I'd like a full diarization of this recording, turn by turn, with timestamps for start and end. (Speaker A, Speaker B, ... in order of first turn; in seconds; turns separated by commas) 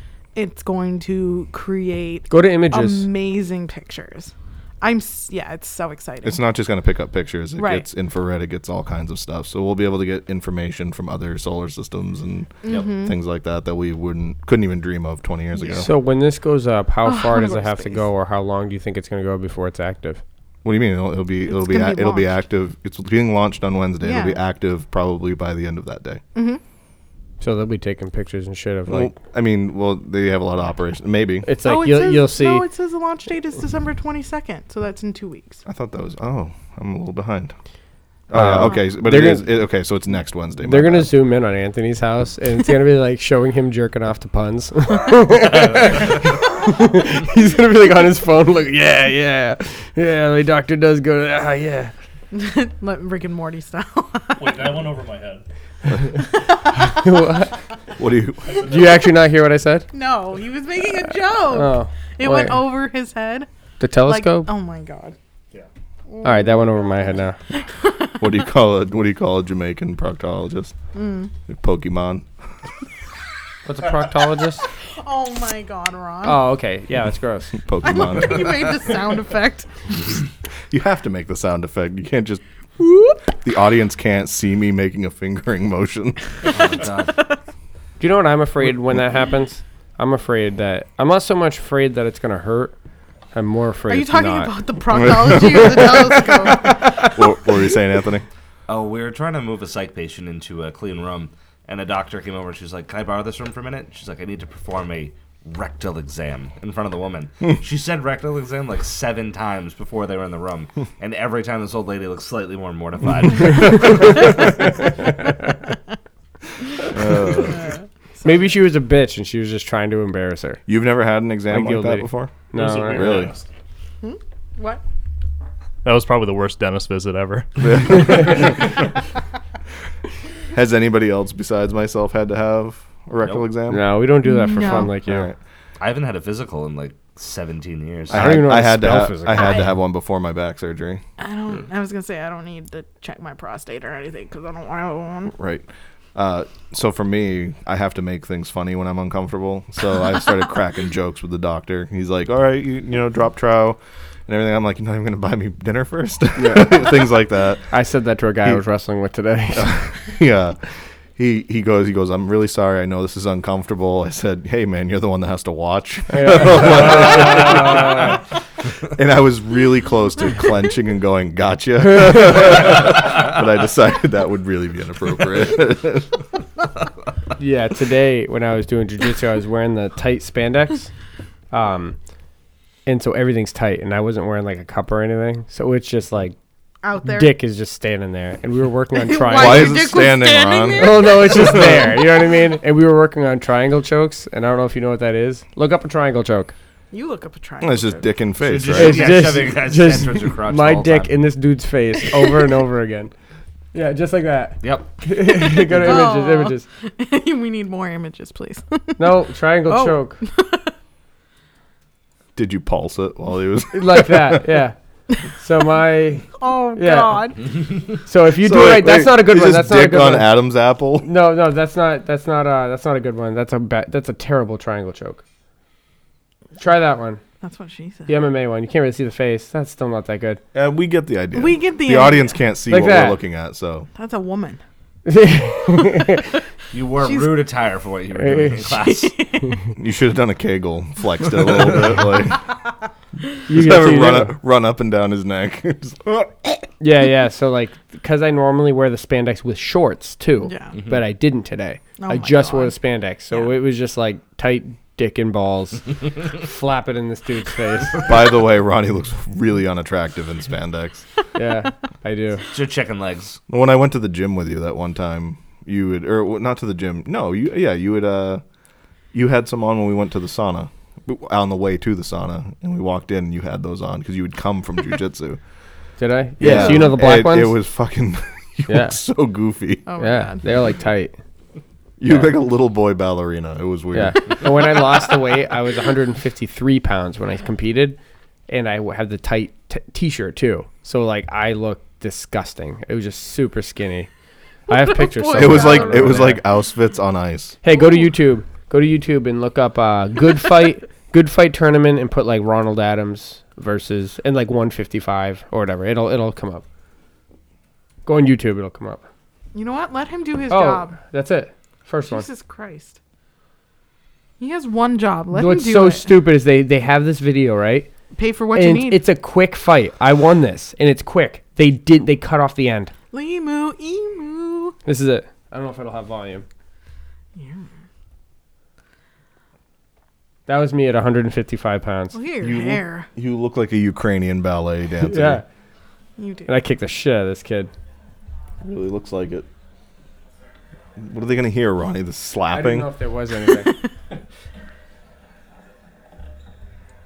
Speaker A: 0.3-6.4, Speaker B: 2.3-3.1, Speaker C: 6.2-15.9, Speaker A: 7.6-7.8, Speaker A: 12.7-13.1, Speaker A: 15.6-15.9, Speaker B: 15.7-20.2, Speaker A: 17.0-18.1, Speaker C: 20.6-26.2, Speaker A: 21.5-22.3, Speaker A: 24.0-24.4, Speaker A: 26.4-26.6, Speaker B: 27.4-29.1, Speaker C: 28.9-31.5, Speaker B: 31.4-32.7, Speaker A: 31.6-35.6, Speaker C: 35.7-37.6, Speaker C: 38.3-41.1, Speaker B: 38.3-39.5, Speaker B: 40.6-51.9, Speaker A: 52.3-54.8, Speaker D: 54.4-55.4, Speaker A: 56.5-57.3, Speaker B: 56.8-57.6, Speaker C: 58.0-58.6, Speaker D: 58.5-59.1, Speaker B: 58.7-59.9, Speaker A: 59.9-63.5, Speaker B: 61.5-62.7, Speaker B: 63.8-64.5, Speaker A: 64.0-65.2, Speaker A: 66.1-66.7, Speaker B: 66.2-67.4, Speaker A: 67.5-68.2, Speaker C: 68.2-70.8, Speaker A: 70.9-71.3, Speaker C: 71.5-72.3, Speaker B: 73.7-74.7, Speaker A: 75.0-76.4, Speaker B: 76.2-77.6, Speaker C: 77.5-78.9, Speaker A: 77.8-79.7, Speaker C: 80.7-82.4, Speaker A: 82.8-83.2, Speaker C: 83.3-86.2, Speaker E: 86.5-87.2, Speaker B: 88.0-92.7, Speaker B: 93.3-94.6, Speaker A: 93.9-97.2, Speaker C: 94.9-98.3, Speaker E: 98.7-114.2, Speaker C: 116.9-117.6, Speaker A: 117.3-118.4, Speaker B: 118.2-120.6, Speaker C: 120.7-123.3, Speaker B: 121.5-123.3, Speaker D: 122.5-123.5, Speaker A: 124.0-124.8, Speaker D: 125.8-128.6, Speaker C: 127.6-128.6, Speaker C: 130.5-133.9, Speaker E: 133.2-133.5, Speaker B: 133.7-135.3, Speaker A: 134.2-134.9, Speaker C: 134.7-135.4, Speaker E: 135.8-138.4, Speaker C: 138.1-141.0, Speaker B: 138.1-139.6, Speaker A: 139.4-139.7, Speaker A: 141.2-145.3, Speaker C: 145.3-157.7, Speaker B: 156.4-157.0, Speaker B: 157.7-159.8, Speaker C: 159.5-168.2, Speaker B: 166.1-168.2, Speaker C: 168.8-176.2, Speaker B: 177.4-180.9, Speaker B: 181.5-182.0, Speaker B: 182.9-186.4, Speaker A: 186.8-187.3, Speaker B: 187.1-189.9, Speaker A: 188.9-191.9, Speaker C: 189.3-191.9, Speaker B: 190.8-196.5, Speaker A: 196.9-198.2, Speaker C: 197.6-199.2, Speaker E: 198.4-201.2, Speaker B: 198.7-203.1, Speaker B: 203.7-206.7, Speaker E: 204.6-205.0, Speaker A: 205.4-209.1, Speaker B: 209.0-210.2, Speaker A: 209.7-210.7, Speaker C: 212.4-214.6, Speaker B: 213.7-214.8, Speaker B: 215.3-217.3, Speaker A: 216.4-217.5, Speaker B: 218.0-220.4, Speaker C: 218.3-221.1, Speaker B: 221.0-225.2, Speaker B: 226.6-227.2, Speaker A: 227.4-228.1, Speaker B: 228.1-230.4, Speaker C: 230.5-233.9, Speaker A: 231.3-232.4, Speaker B: 232.7-233.2, Speaker A: 233.9-234.6, Speaker B: 235.1-236.3, Speaker E: 236.7-239.1, Speaker A: 237.0-237.4, Speaker B: 238.2-239.5, Speaker A: 238.7-239.5, Speaker C: 239.8-242.5, Speaker B: 243.5-244.3, Speaker C: 243.5-246.6, Speaker B: 246.8-258.1, Speaker A: 250.4-250.8, Speaker A: 252.0-252.8, Speaker C: 258.1-261.1, Speaker B: 261.4-262.4, Speaker E: 262.5-263.4, Speaker C: 263.5-268.4, Speaker C: 269.1-275.4, Speaker B: 276.0-277.6, Speaker C: 276.4-279.9, Speaker B: 278.7-279.0, Speaker A: 279.9-280.4, Speaker B: 280.0-281.1, Speaker C: 282.0-284.4, Speaker B: 283.9-294.1, Speaker B: 294.7-296.4, Speaker A: 294.7-296.3, Speaker C: 295.4-297.6, Speaker B: 297.6-306.6, Speaker A: 297.7-298.1, Speaker B: 308.1-309.0, Speaker A: 309.5-311.0, Speaker B: 310.5-312.3, Speaker A: 312.1-313.0, Speaker A: 314.4-316.1, Speaker B: 315.3-317.9, Speaker A: 318.2-319.0, Speaker B: 318.6-322.9, Speaker A: 323.1-324.8, Speaker B: 324.9-326.4, Speaker A: 327.4-327.7, Speaker B: 330.5-332.2, Speaker A: 332.1-333.1, Speaker C: 332.4-335.4, Speaker B: 335.0-335.4, Speaker A: 336.2-336.5, Speaker B: 336.5-337.7, Speaker C: 338.6-339.4, Speaker C: 341.0-342.9, Speaker B: 342.5-343.7